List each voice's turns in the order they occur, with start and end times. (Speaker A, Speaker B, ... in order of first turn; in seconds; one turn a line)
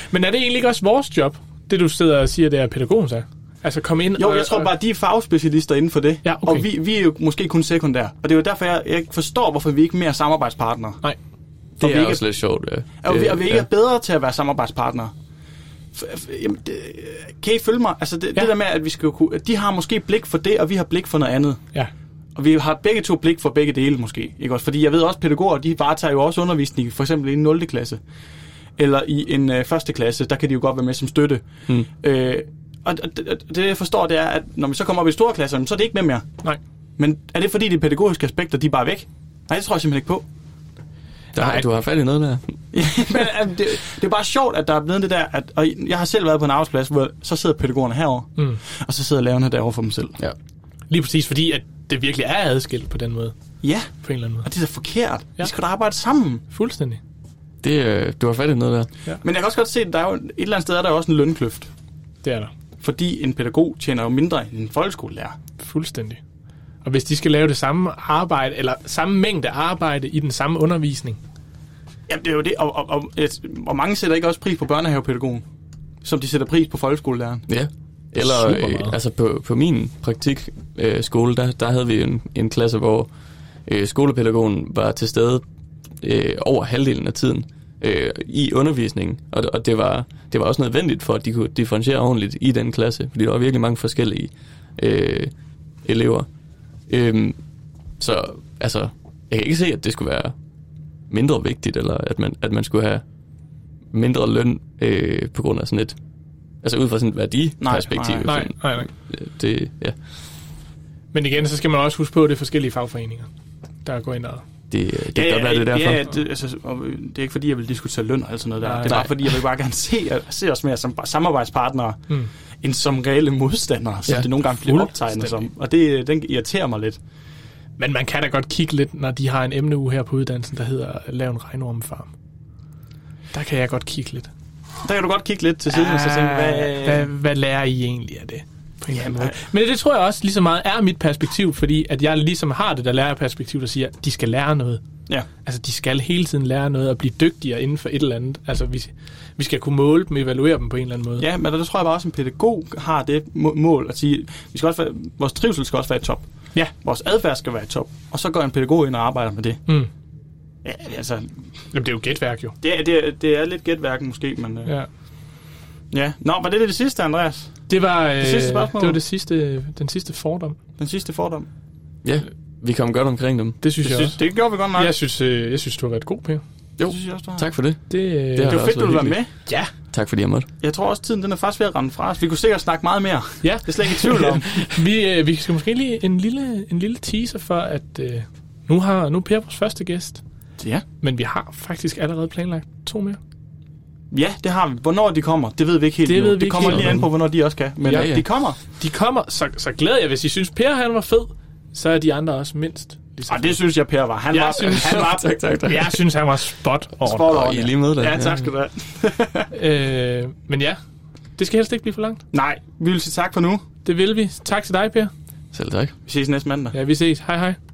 Speaker A: 0.1-4.7
Speaker B: 4.2-11.0
Speaker A: 6.2-6.7
Speaker C: 11.8-13.7
Speaker B: 11.8-12.2
Speaker B: 13.0-15.1
Speaker B: 15.9-21.6
Speaker B: 22.4-28.0
Speaker B: 28.8-36.3
Speaker B: 37.0-40.2
Speaker C: 41.3-42.6
Speaker B: 42.7-50.2
Speaker A: 50.9-53.3
Speaker B: 53.6-53.9
Speaker A: 54.0-54.5
Speaker B: 54.4-56.4
Speaker A: 56.5-57.0
Speaker C: 57.6-58.9
Speaker B: 59.2-61.7
Speaker A: 62.2-62.5
Speaker B: 62.8-65.3
Speaker A: 65.6-66.2
Speaker A: 66.8-71.2
Speaker B: 72.1-75.4
Speaker B: 76.0-77.5
Speaker C: 77.5-83.1
Speaker A: 78.2-79.0
Speaker C: 83.7-85.4
Speaker C: 86.0-95.3
Speaker C: 95.8-96.3
Speaker C: 96.9-97.4
Speaker C: 98.0-100.3
Speaker C: 101.1-103.0
Speaker C: 103.9-106.0
Speaker C: 106.6-110.0
Speaker B: 107.6-108.3
Speaker A: 108.2-108.9
Speaker A: 111.1-113.3
Speaker A: 113.8-114.4
Speaker C: 114.7-116.0
Speaker B: 115.1-122.0
Speaker A: 118.6-119.1
Speaker B: 122.6-127.0
Speaker A: 124.7-125.4
Speaker A: 127.8-132.1
Speaker A: 133.3-134.3
Speaker B: 134.8-137.1
Speaker A: 135.7-144.8
Speaker B: 138.9-139.3
Speaker A: 145.4-151.2
Speaker B: 151.2-159.6
Speaker B: 160.6-161.3
Speaker A: 161.7-162.5
Speaker B: 162.6-164.7
Speaker B: 165.9-167.7
Speaker A: 167.7-170.6
Speaker B: 168.2-169.0
Speaker B: 170.8-171.5
Speaker C: 172.0-173.6
Speaker A: 173.6-174.2
Speaker B: 173.8-174.9
Speaker A: 174.7-176.4
Speaker C: 176.8-179.2
Speaker B: 176.8-177.5
Speaker A: 177.9-178.6
Speaker B: 178.4-179.3
Speaker A: 179.4-179.7
Speaker C: 179.9-180.5
Speaker B: 180.6-184.7
Speaker A: 183.4-190.2
Speaker B: 190.6-190.8
Speaker A: 191.0-193.2
Speaker B: 194.1-198.6
Speaker A: 196.1-197.1
Speaker C: 196.7-197.0
Speaker A: 197.8-203.6
Speaker C: 197.9-198.2
Speaker B: 203.3-205.3
Speaker A: 204.3-204.9
Speaker C: 204.6-206.0
Speaker A: 205.6-207.3
Speaker B: 207.0-209.5
Speaker C: 207.2-208.5
Speaker A: 209.5-210.8
Speaker A: 211.4-212.2
Speaker B: 212.3-213.6
Speaker A: 213.8-215.1
Speaker C: 215.5-215.9
Speaker B: 216.1-216.7
Speaker A: 216.7-217.6